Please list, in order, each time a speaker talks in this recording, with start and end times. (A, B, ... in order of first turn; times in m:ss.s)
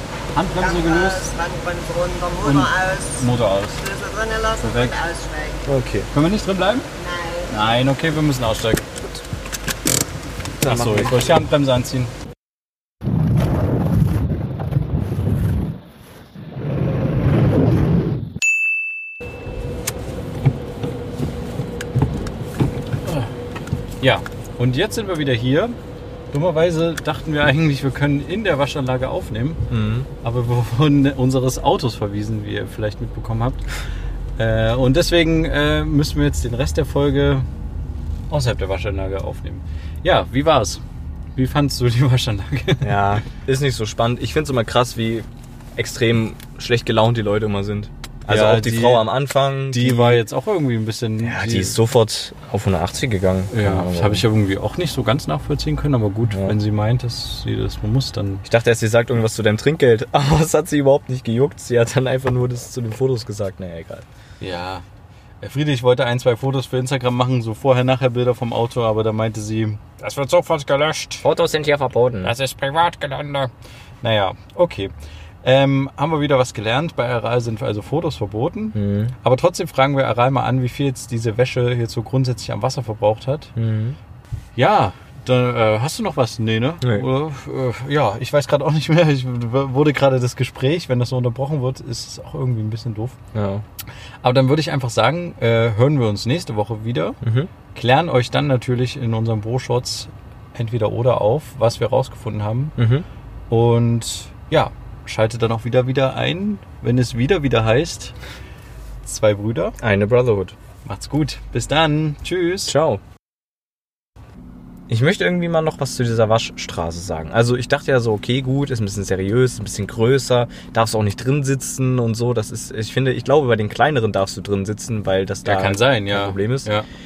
0:00.3-0:01.3 A
0:00.5-0:05.7 B
0:02.4-0:03.8 A
0:04.6-0:05.0 A
0:05.7-0:06.1 C
0:06.1-0:06.9 A
0:07.0-0:07.6 B
0:07.5-0:09.2 A
0:10.6-0:11.3 C
0:10.6-0:12.1 A
0:23.0-0:23.3 A
0:24.0-0:25.8 A
0:26.3-0:29.7 A
0:29.7-0:30.1 C
0:30.2-0:33.7 A
0:34.4-0:37.5 A
0:38.3-0:40.8 A
0:41.4-0:43.2 A
0:42.8-0:50.2 C
0:48.3-0:49.1 A
0:49.7-0:51.8 A
0:51.2-0:54.3 C
0:53.5-0:58.4 A
0:58.4-1:04.0 C
1:04.4-1:04.8 A
1:05.4-1:11.3 A
1:11.2-1:12.3 C
1:12.2-1:13.5 A
1:14.0-1:14.9 A
1:15.4-1:23.5 A
1:18.8-1:19.2 C
1:23.6-1:24.0 C
1:24.6-1:33.2 A
1:33.3-1:33.6 C
1:34.2-1:37.2 A
1:37.2-1:37.5 C
1:37.7-1:42.8 A
1:42.8-1:43.1 C
1:43.5-1:48.2 A
1:49.0-1:49.8 A
1:49.8-1:50.6 C
1:50.8-1:52.7 A
1:52.7-1:53.0 C
1:54.9-2:06.7 C
2:05.4-2:06.9 A